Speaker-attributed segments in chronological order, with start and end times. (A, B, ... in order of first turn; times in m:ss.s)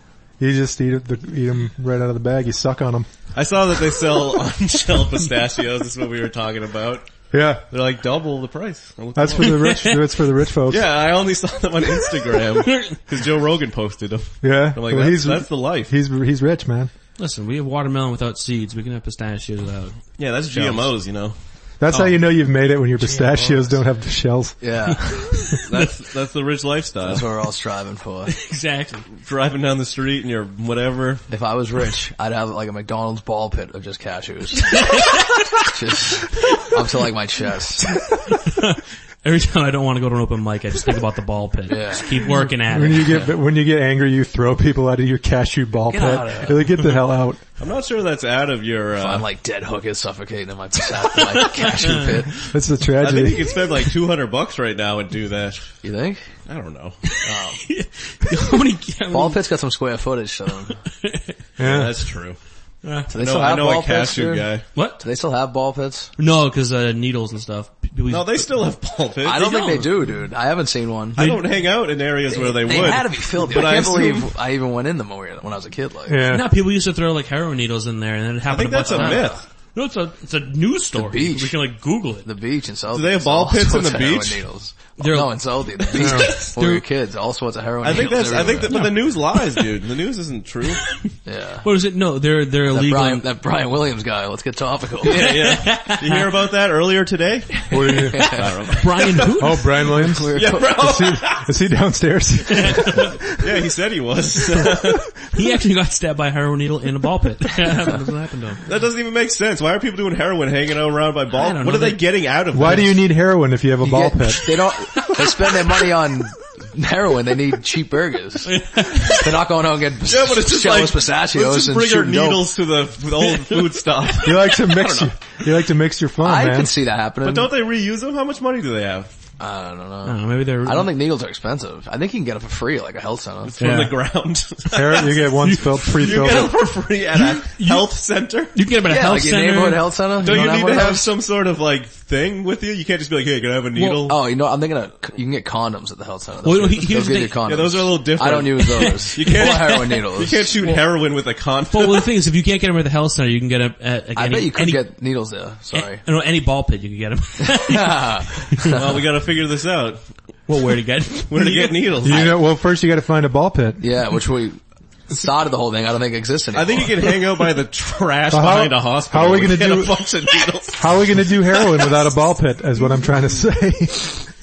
0:00.4-0:03.1 A
0:03.3-0:07.1 B
0:07.3-0:07.6 A
0:07.7-0:09.9 B
0:09.2-0:10.8 A
0:09.4-0:10.0 C
0:10.7-0:15.9 B
0:12.6-0:13.0 C
0:14.4-0:16.9 A
0:17.2-0:20.0 C
0:20.2-0:21.3 B
0:20.5-0:20.9 A
0:21.8-0:24.9 A
0:23.1-0:23.7 D
0:24.6-0:25.3 D
0:25.3-0:25.9 C
0:25.6-0:27.3 B
0:27.0-0:28.3 D
0:28.3-0:29.1 C
0:29.2-0:31.2 B
0:31.3-0:37.9 D
0:34.7-0:35.2 C
0:38.3-0:43.2 C
0:41.7-0:42.4 D
0:42.7-0:47.4 A
0:43.0-0:43.3 D
0:45.9-0:46.8 D
0:47.6-0:49.2 B
0:49.0-0:52.5 D
0:51.3-0:52.1 C
0:52.5-0:53.5 A
0:53.0-0:55.7 B
0:55.8-0:56.2 D
0:56.5-0:57.0 B
0:57.1-0:59.4 C
0:57.2-0:57.6 D
0:59.1-1:00.8 D
1:00.8-1:01.3 C
1:01.6-1:01.9 A
1:01.6-1:02.4 B
1:02.8-1:03.1 C
1:03.1-1:06.1 D
1:03.1-1:04.6 B
1:04.8-1:05.0 C
1:06.2-1:08.5 C
1:08.1-1:09.6 B
1:09.2-1:11.2 D
1:09.3-1:09.9 C
1:11.2-1:11.5 C
1:11.2-1:14.3 B
1:12.3-1:16.2 D
1:16.1-1:16.5 A
1:16.2-1:22.3 C
1:18.5-1:19.4 B
1:18.8-1:19.4 D
1:20.9-1:21.6 D
1:22.2-1:28.9 D
1:22.9-1:24.4 B
1:25.0-1:26.8 C
1:26.0-1:26.3 A
1:27.8-1:30.8 B
1:28.7-1:29.6 C
1:30.9-1:33.2 C
1:31.2-1:31.7 D
1:32.7-1:35.3 D
1:35.0-1:39.7 B
1:35.0-1:36.2 C
1:37.7-1:38.4 A
1:37.8-1:38.7 D
1:38.1-1:39.8 C
1:39.4-1:43.5 A
1:39.9-1:40.9 D
1:40.3-1:41.5 B
1:42.5-1:43.1 C
1:43.4-1:45.1 B
1:44.5-1:48.6 C
1:48.6-1:53.0 B
1:51.3-1:52.0 C
1:52.5-1:54.4 A
1:53.8-2:02.5 D
1:54.9-1:55.8 C
1:58.4-1:59.4 C
2:00.1-2:05.1 B
2:03.2-2:04.1 C
2:04.2-2:06.7 A
2:06.2-2:07.5 D
2:07.2-2:09.1 B
2:09.4-2:13.6 D
2:10.0-2:10.9 C
2:13.4-2:18.5 B
2:13.6-2:13.9 A
2:14.7-2:16.6 A
2:15.4-2:16.5 C
2:17.1-2:18.0 C
2:18.5-2:19.9 C
2:18.8-2:21.1 D
2:20.2-2:24.2 B
2:23.8-2:24.0 C
2:23.9-2:30.6 D
2:26.4-2:27.4 C
2:27.4-2:32.1 B
2:28.7-2:29.9 C
2:31.7-2:34.8 C
2:34.2-2:36.0 D
2:35.7-2:38.8 C
2:37.4-2:39.0 D
2:38.7-2:40.0 B
2:40.5-2:42.2 C
2:41.3-2:42.3 B
2:42.0-2:43.8 A
2:43.8-2:47.1 D
2:46.5-2:51.9 B
2:48.3-2:49.9 A
2:50.8-2:54.3 A